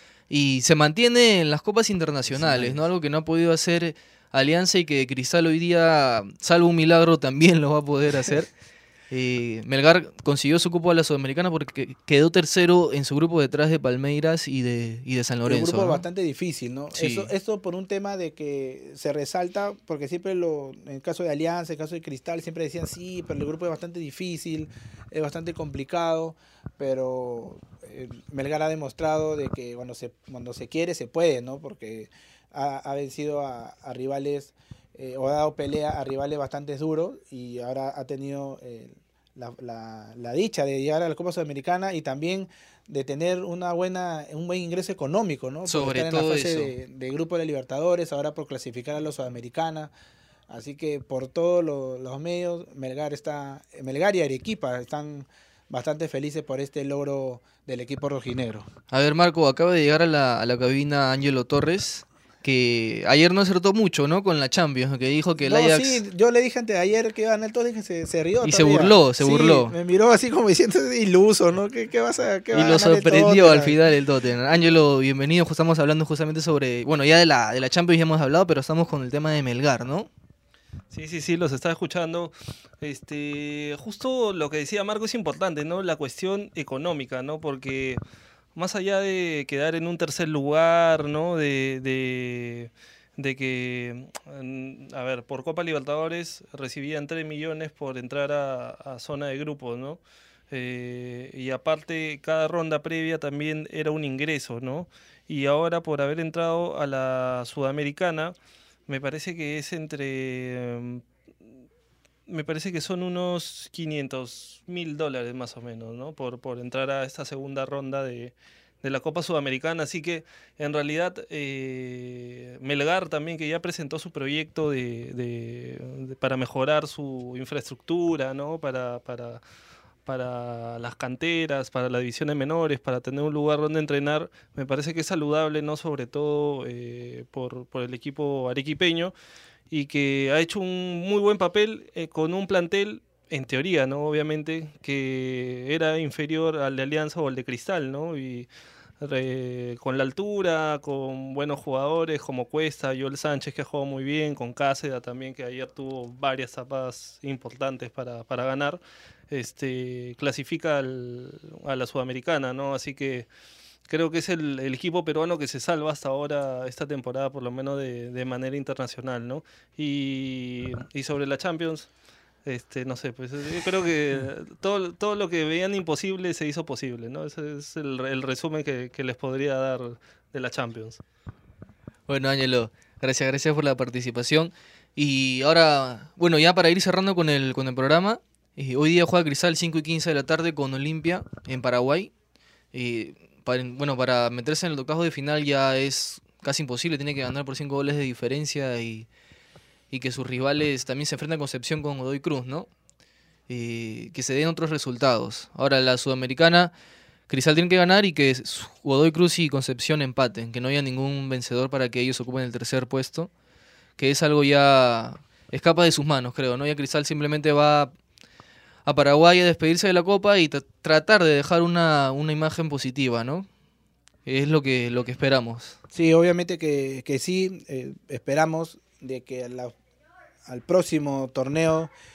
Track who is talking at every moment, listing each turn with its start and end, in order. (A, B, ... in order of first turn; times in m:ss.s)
0:00.3-0:08.5 A
0:02.3-0:02.9 B
0:09.1-0:16.0 A
0:15.4-0:49.9 B
0:16.9-0:17.3 A
0:45.6-0:46.7 A
0:50.5-0:58.7 B
0:58.9-1:06.0 A
1:05.4-1:13.8 B
1:08.4-1:09.8 A
1:12.5-1:20.1 A
1:20.9-1:28.0 C
1:28.6-1:48.4 C
1:48.9-1:51.0 C
1:52.3-2:09.4 C
2:10.1-2:19.1 C
2:19.7-2:28.5 C
2:29.0-2:43.3 C
2:43.9-2:51.9 C
2:52.4-3:01.0 C
3:02.1-3:12.1 A
3:12.7-3:19.1 A
3:19.9-3:22.7 A
3:23.5-3:26.7 A
3:27.3-3:33.3 A
3:34.0-3:37.9 A
3:38.8-3:43.5 A
3:44.3-3:45.8 A
3:45.9-3:49.7 B
3:50.4-3:51.9 B